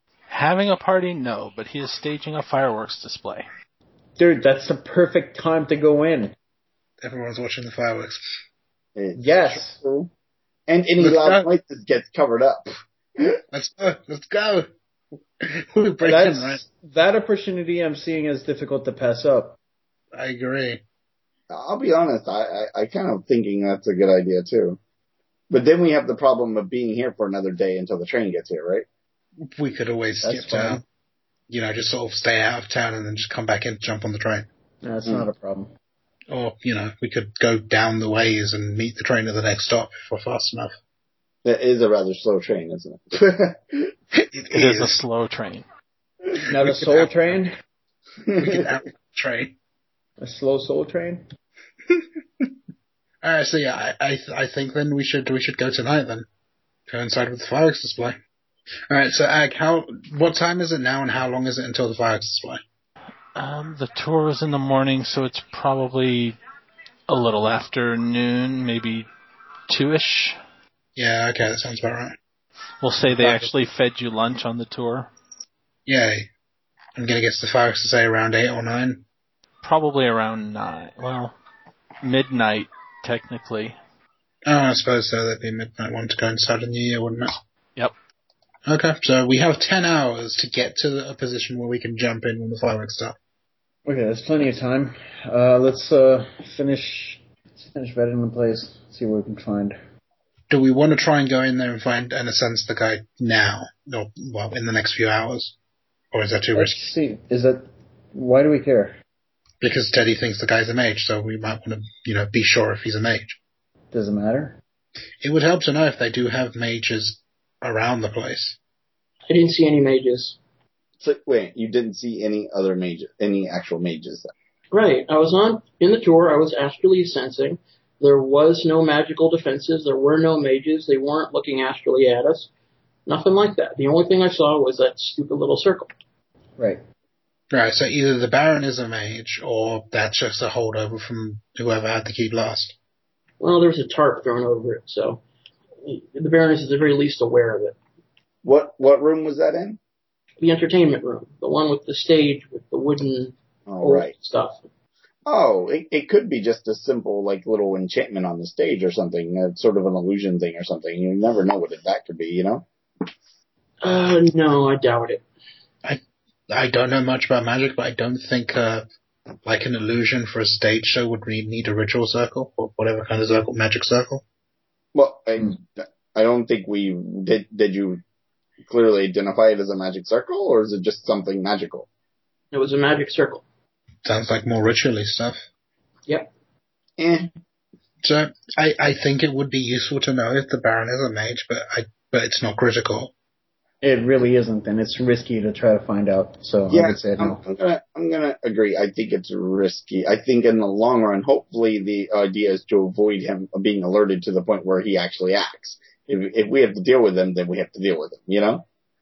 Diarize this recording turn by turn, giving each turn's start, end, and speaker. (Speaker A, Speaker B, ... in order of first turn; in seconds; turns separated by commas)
Speaker A: 0.3-3.5, Speaker B: 4.2-6.3, Speaker C: 7.0-8.2, Speaker D: 9.0-10.1, Speaker B: 9.2-9.8, Speaker D: 10.7-13.4, Speaker C: 11.0-11.4, Speaker C: 13.5-14.7, Speaker C: 15.4-16.6, Speaker B: 16.0-19.6, Speaker C: 20.1-20.8, Speaker D: 21.5-24.8, Speaker D: 25.5-28.9, Speaker C: 29.6-30.8, Speaker B: 30.2-30.8, Speaker C: 31.5-34.5, Speaker B: 34.8-35.7, Speaker C: 36.3-40.7, Speaker D: 41.5-43.9, Speaker C: 44.1-45.0, Speaker A: 44.5-45.6, Speaker B: 46.5-47.5, Speaker C: 46.5-47.1, Speaker D: 48.3-48.8, Speaker C: 48.4-49.5, Speaker B: 50.2-51.2, Speaker C: 52.0-52.4, Speaker C: 53.2-56.3, Speaker C: 56.9-58.2, Speaker C: 58.9-62.6, Speaker A: 63.4-66.4, Speaker A: 67.1-69.1, Speaker A: 69.7-70.4, Speaker C: 71.0-72.2, Speaker A: 72.8-75.1, Speaker C: 73.2-73.5, Speaker C: 75.9-76.3, Speaker C: 77.0-79.0, Speaker A: 79.6-81.3, Speaker A: 82.0-83.8, Speaker C: 84.5-87.3, Speaker C: 88.7-93.2, Speaker B: 93.9-99.8, Speaker C: 100.5-105.5, Speaker C: 106.1-106.8, Speaker B: 106.5-109.0, Speaker C: 109.6-113.4, Speaker B: 113.9-114.6, Speaker C: 115.2-118.6, Speaker E: 119.3-120.4, Speaker D: 121.0-124.3, Speaker E: 124.7-132.5, Speaker E: 133.1-135.9, Speaker C: 137.5-142.8, Speaker E: 143.4-145.2, Speaker E: 145.8-147.8, Speaker D: 148.4-149.8, Speaker E: 150.4-154.6, Speaker D: 153.7-154.1, Speaker D: 155.3-162.7, Speaker E: 163.8-165.2, Speaker C: 163.8-164.2, Speaker C: 165.8-168.9, Speaker C: 169.4-174.2, Speaker D: 174.9-178.0, Speaker D: 178.7-181.9, Speaker E: 182.5-183.4, Speaker C: 184.1-185.4, Speaker D: 187.0-187.3, Speaker C: 188.0-193.1, Speaker B: 193.8-197.4, Speaker D: 196.7-208.7